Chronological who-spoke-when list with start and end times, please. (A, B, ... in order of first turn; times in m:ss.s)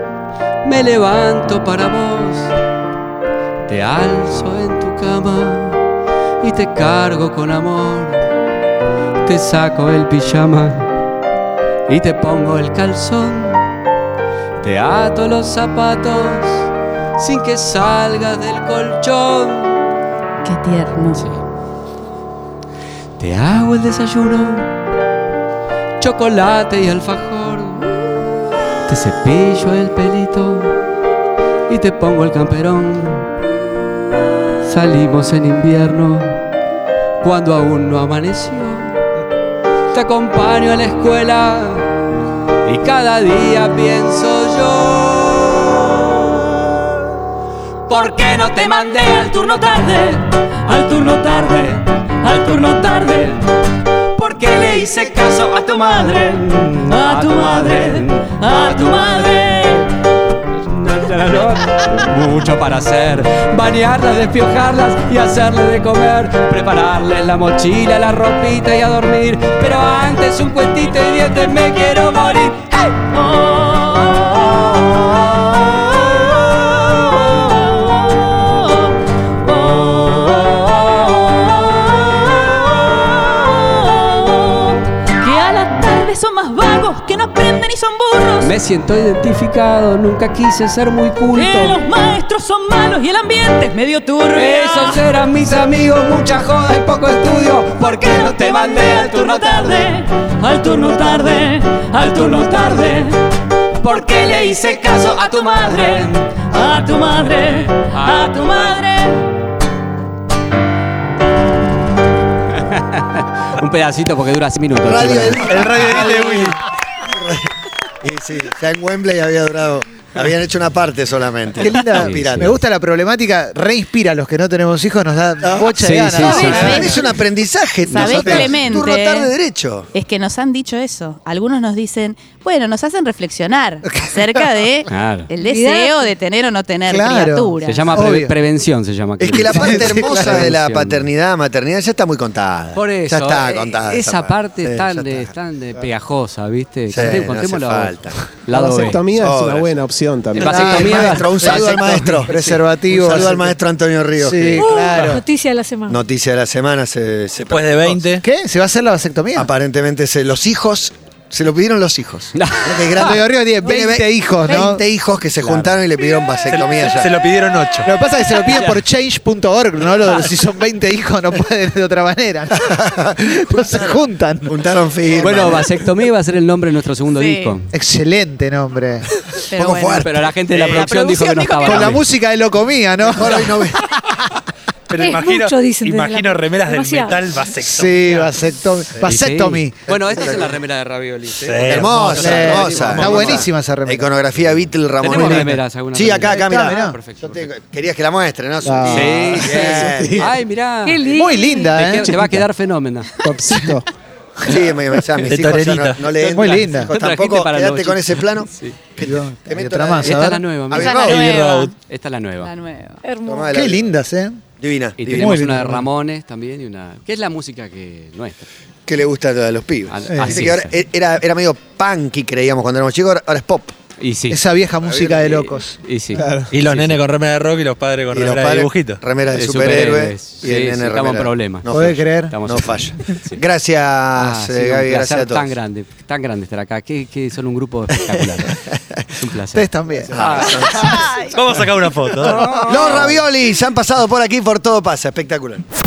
0:00.6-0:02.5 A
0:03.7-0:05.8 A
0:06.4-0:08.2 A
0:09.2-0:10.9 A
0:11.9-0:13.6 A
0:14.6-0:19.8 A
0:20.4-0:21.2 B
0:21.2-0:21.4 A
0:23.2-0:24.7 A
0:26.0-0:28.2 A
0:28.9-0:30.8 A
0:31.7-0:33.3 A
0:34.6-0:36.4 A
0:37.2-0:39.0 A
0:39.9-0:41.9 A
0:42.6-0:46.8 A
0:47.9-0:53.4 A
0:54.2-0:59.8 A
0:56.9-0:59.8 C
1:00.5-1:13.1 A
1:13.1-1:18.9 C
1:19.4-1:28.5 C
1:19.5-1:20.7 A
1:28.4-1:31.8 A
1:31.4-1:35.0 C
1:34.3-1:39.9 A
1:38.1-1:43.1 C
1:40.7-1:41.4 A
1:42.1-1:43.0 A
1:43.8-1:48.8 A
1:46.5-1:49.2 C
1:52.6-1:56.4 A
1:54.8-1:57.5 D
1:55.4-1:56.6 E
1:58.0-2:02.6 D
2:01.5-2:06.9 F
2:02.0-2:02.6 A
2:05.4-2:09.9 D
2:05.8-2:06.9 A
2:06.2-2:07.0 B
2:07.9-2:09.3 B
2:07.9-2:08.5 A
2:08.0-2:08.8 F
2:10.0-2:18.0 B
2:13.8-2:14.7 F
2:14.9-2:15.3 A
2:15.4-2:16.1 G
2:16.9-2:18.3 F
2:17.6-2:21.1 A
2:19.2-2:25.3 D
2:19.5-2:20.5 F
2:22.8-2:29.0 A
2:26.9-2:28.2 D
2:28.5-2:31.1 H
2:29.2-2:29.7 D
2:30.4-2:34.8 D
2:30.4-2:31.7 A
2:30.5-2:33.6 F
2:34.2-2:35.2 F
2:34.6-2:36.0 G
2:35.9-2:38.0 D
2:37.4-2:38.2 E
2:38.2-2:39.5 F
2:39.4-2:47.2 D
2:42.4-2:43.2 A
2:43.1-2:44.8 F
2:45.4-2:45.8 A
2:46.4-2:47.9 E
2:47.8-2:54.6 F
2:48.5-2:48.8 A
2:52.7-2:55.7 D
2:55.2-2:57.7 A
2:57.2-2:57.5 B
2:57.7-2:59.1 F
2:59.5-3:00.0 B
2:59.6-3:00.3 D
3:00.0-3:02.0 A
3:00.5-3:01.1 E
3:01.6-3:03.7 F
3:03.1-3:03.8 D
3:04.9-3:08.4 E
3:05.0-3:07.3 G
3:07.6-3:09.8 F
3:09.0-3:13.4 A
3:09.9-3:10.6 D
3:11.4-3:13.3 E
3:11.6-3:20.4 D
3:12.2-3:14.1 F
3:14.5-3:17.5 A
3:15.1-3:15.6 F
3:16.3-3:17.0 F
3:18.6-3:20.2 F
3:18.9-3:23.1 A
3:20.9-3:21.6 G
3:21.1-3:22.4 F
3:22.0-3:22.4 H
3:23.2-3:23.8 H
3:24.4-3:31.3 D
3:25.2-3:26.2 E
3:26.3-3:26.9 F
3:26.8-3:28.8 A
3:29.0-3:30.4 F
3:30.0-3:31.3 A
3:30.8-3:31.7 B
3:30.9-3:31.7 E
3:31.8-3:32.5 A
3:32.4-3:33.0 B
3:33.0-3:33.5 G
3:33.2-3:33.9 D
3:33.5-3:34.4 F
3:34.6-3:35.4 D
3:35.0-3:38.5 A
3:35.2-3:35.8 F
3:38.9-3:43.7 D
3:39.9-3:40.8 A
3:40.1-3:40.5 F
3:44.0-3:44.4 A
3:44.3-3:46.5 F
3:44.8-3:45.6 D
3:45.7-3:47.0 A
3:46.5-3:49.0 E
3:48.1-3:55.6 D
3:49.3-3:51.7 A
3:51.7-3:52.4 F
3:52.3-3:53.4 A
3:54.2-3:58.5 A
3:58.0-3:59.1 D
3:59.1-4:01.0 A
3:59.5-4:01.1 F
4:00.1-4:00.9 D
4:01.2-4:02.5 E
4:02.2-4:03.2 A
4:02.4-4:05.6 D